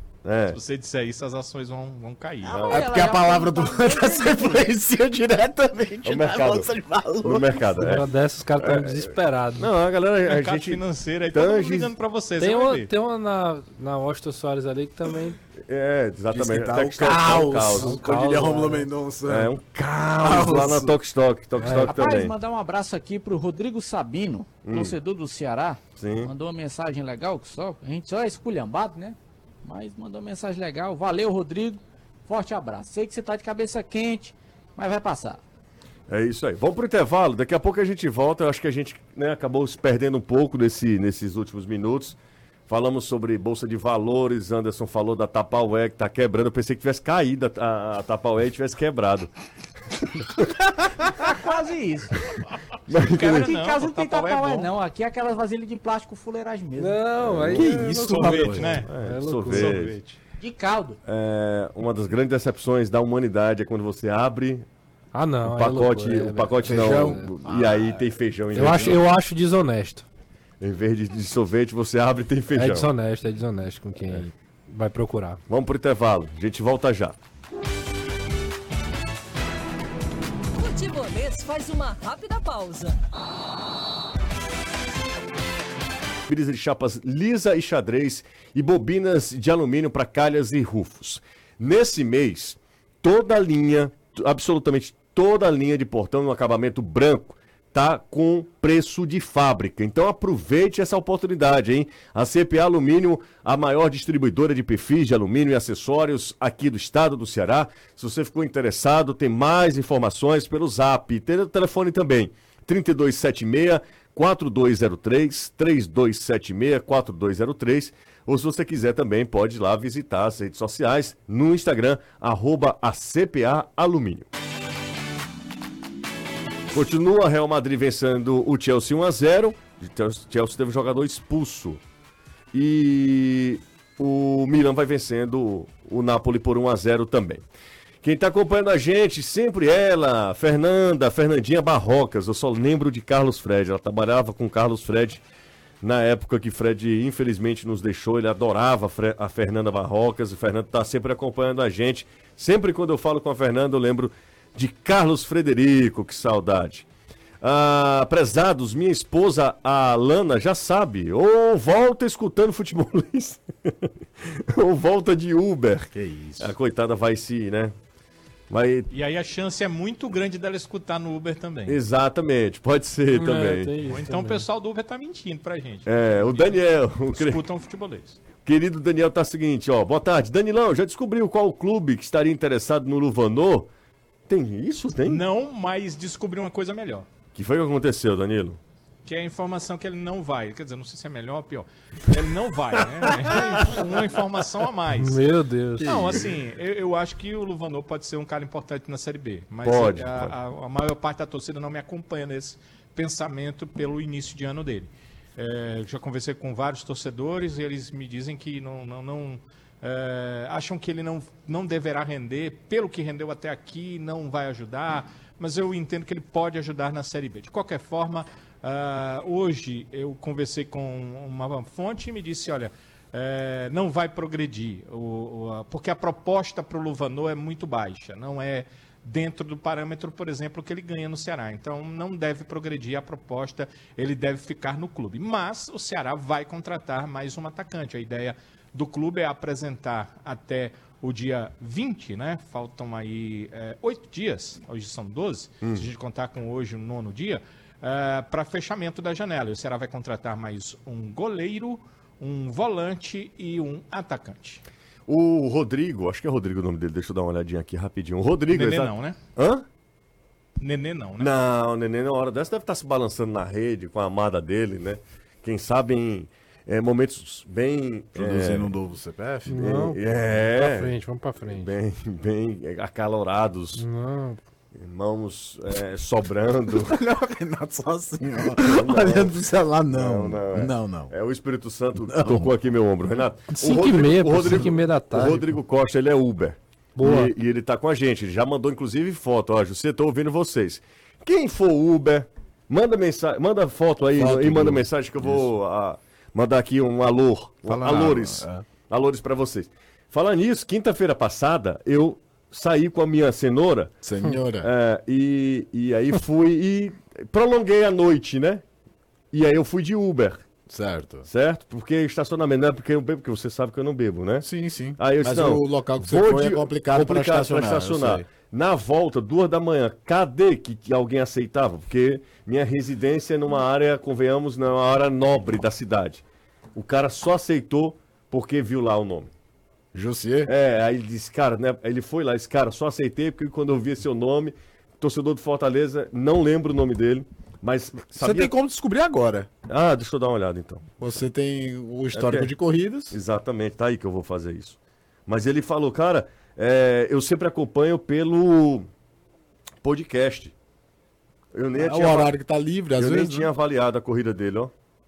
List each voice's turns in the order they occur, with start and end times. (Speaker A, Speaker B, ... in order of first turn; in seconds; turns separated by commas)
Speaker A: 0.2-0.6, Speaker B: 0.5-2.7, Speaker A: 2.5-2.9, Speaker C: 2.5-4.7, Speaker D: 2.7-7.8, Speaker A: 6.0-6.7, Speaker A: 7.2-11.9, Speaker E: 7.8-9.7, Speaker B: 10.2-12.9, Speaker E: 12.4-15.4, Speaker A: 15.6-18.0, Speaker D: 16.3-19.5, Speaker E: 17.8-18.9, Speaker A: 19.3-22.4, Speaker D: 20.2-21.0, Speaker E: 21.6-21.9, Speaker C: 21.8-35.4, Speaker A: 24.6-25.0, Speaker A: 26.0-26.3, Speaker A: 36.1-42.2, Speaker A: 42.7-49.3, Speaker C: 51.1-52.3, Speaker A: 52.9-53.5, Speaker B: 52.9-54.7, Speaker C: 53.2-57.0, Speaker E: 56.8-60.2, Speaker A: 57.2-57.7, Speaker D: 57.5-58.9, Speaker B: 57.5-58.9, Speaker A: 58.9-60.0, Speaker C: 60.4-61.0, Speaker A: 61.0-64.7, Speaker E: 65.1-67.3, Speaker A: 65.5-69.0, Speaker D: 66.6-69.0, Speaker E: 68.5-70.0, Speaker A: 70.6-72.9, Speaker E: 72.5-75.4, Speaker A: 75.5-77.2, Speaker F: 80.5-83.0, Speaker A: 86.3-124.3, Speaker A: 126.7-131.8, Speaker A: 132.5-137.4, Speaker A: 138.0-145.2, Speaker A: 145.8-156.9, Speaker A: 157.4-167.8, Speaker D: 165.9-166.5, Speaker A: 168.5-168.9, Speaker B: 168.9-171.8, Speaker A: 171.7-173.7, Speaker E: 173.1-174.4, Speaker B: 173.8-178.2, Speaker A: 175.9-177.4, Speaker A: 178.4-183.7, Speaker A: 184.3-185.2, Speaker B: 185.0-187.1, Speaker A: 187.3-188.6, Speaker B: 189.1-195.2, Speaker A: 193.3-193.7, Speaker E: 194.9-196.2, Speaker A: 195.8-196.3, Speaker B: 195.8-254.6, Speaker A: 199.6-200.3, Speaker A: 245.6-245.9, Speaker A: 255.1-259.6, Speaker B: 258.5-259.2, Speaker B: 260.6-261.3, Speaker A: 261.2-268.7, Speaker D: 268.2-269.7, Speaker E: 269.5-271.7, Speaker A: 269.5-270.9, Speaker A: 271.4-273.9, Speaker E: 273.8-274.4, Speaker A: 274.8-277.0, Speaker D: 276.7-281.1, Speaker A: 278.6-279.4, Speaker A: 279.9-303.9, Speaker D: 282.1-282.5, Speaker E: 283.5-285.6, Speaker E: 287.0-287.3, Speaker D: 294.2-295.5, Speaker D: 297.7-298.7, Speaker D: 304.0-304.7, Speaker A: 304.6-308.6, Speaker A: 309.3-310.4, Speaker D: 310.7-311.3, Speaker A: 311.3-314.5, Speaker D: 314.4-318.3, Speaker A: 315.0-326.2, Speaker A: 326.8-329.3, Speaker D: 329.9-330.5, Speaker A: 330.5-338.5, Speaker D: 338.1-339.5, Speaker A: 339.7-340.9, Speaker D: 341.0-343.2, Speaker A: 342.1-342.5, Speaker A: 343.1-348.9, Speaker A: 349.8-350.5, Speaker A: 351.5-352.3, Speaker D: 351.8-353.5, Speaker A: 353.0-354.7